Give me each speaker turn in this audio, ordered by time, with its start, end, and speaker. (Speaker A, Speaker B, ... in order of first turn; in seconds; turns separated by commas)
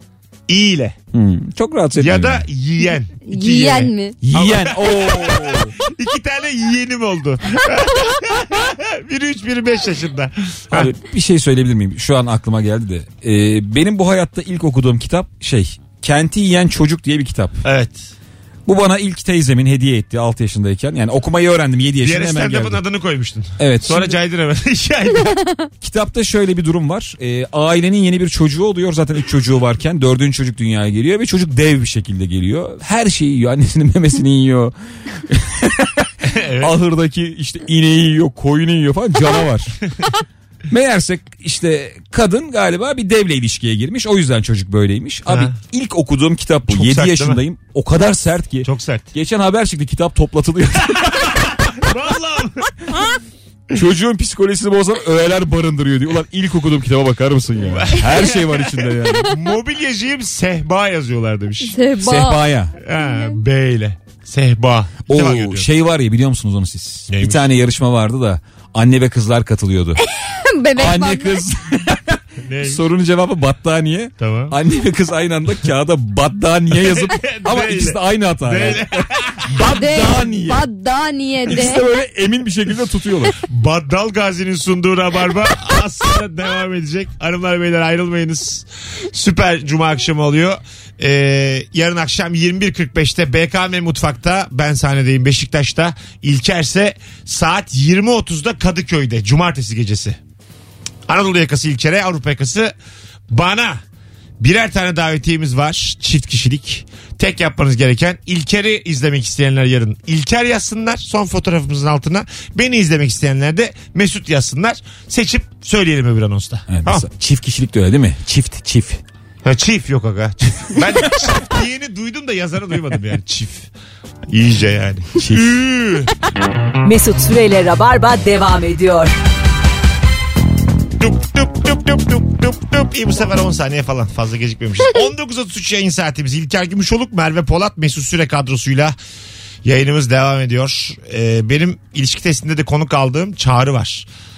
Speaker A: 0.5-0.9, Speaker B: 1.1-2.4, Speaker A: 1.9-10.9, Speaker C: 3.2-4.2, Speaker B: 4.2-5.7, Speaker B: 10.7-17.6, Speaker A: 17.6-18.1, Speaker B: 18.6-22.8, Speaker A: 22.0-25.4, Speaker B: 23.6-24.1, Speaker C: 25.2-25.7, Speaker B: 25.8-39.8, Speaker A: 36.2-36.7, Speaker B: 40.7-51.2, Speaker A: 45.3-45.5, Speaker A: 46.7-47.4, Speaker A: 48.6-49.1, Speaker A: 50.9-52.7, Speaker B: 53.7-59.3, Speaker A: 57.6-61.8, Speaker C: 61.6-63.4, Speaker B: 62.0-62.7, Speaker A: 62.8-65.7, Speaker B: 65.1-70.0, Speaker A: 67.1-67.5, Speaker C: 70.0-71.4, Speaker B: 70.8-80.6, Speaker A: 72.4-72.8, Speaker A: 74.2-74.5, Speaker A: 76.7-79.5, Speaker C: 79.7-81.8, Speaker B: 81.5-83.4, Speaker A: 83.4-100.2, Speaker A: 101.1-102.7, Speaker A: 103.3-103.8, Speaker A: 104.4-117.1, Speaker B: 116.7-119.0, Speaker A: 119.4-123.7, Speaker A: 124.3-126.1, Speaker B: 125.2-125.5, Speaker D: 126.8-129.1, Speaker A: 131.0-138.9, Speaker A: 139.6-144.1